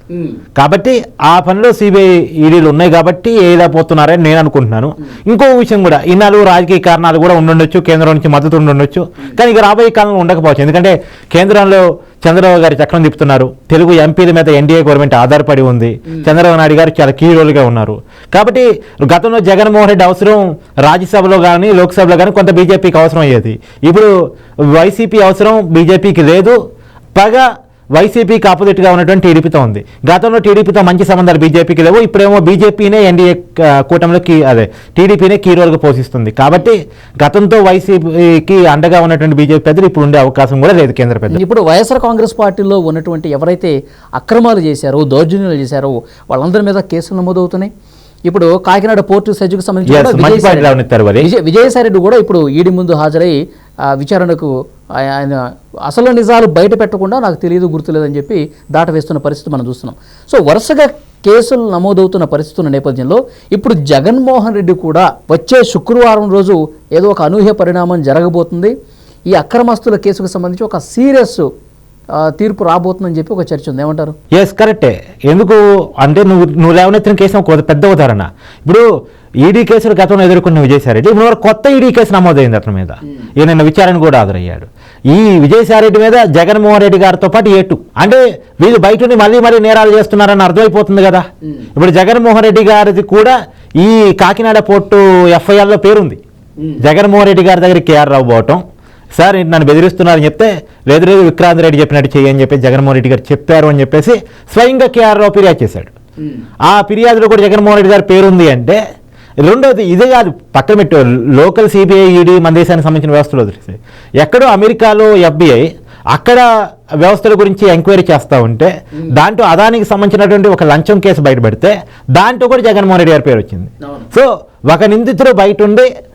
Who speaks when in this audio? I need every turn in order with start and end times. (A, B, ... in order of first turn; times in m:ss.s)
0:00.1-0:00.4 A
0:00.6-0:24.1 B
0:24.7-0:26.6 B
0:27.2-0:41.4 B
0:41.3-0:47.7 A
0:48.3-0:53.3 A
0:49.9-0:51.3 B
0:53.9-1:08.7 A
1:09.3-1:11.4 A
1:12.2-1:14.1 A
1:14.3-1:18.8 B
1:19.4-1:36.2 B
1:36.8-1:38.6 B
1:39.2-1:45.9 B
1:46.6-1:48.8 B
1:49.4-1:56.4 B
1:57.0-2:05.9 B
2:03.8-2:04.1 A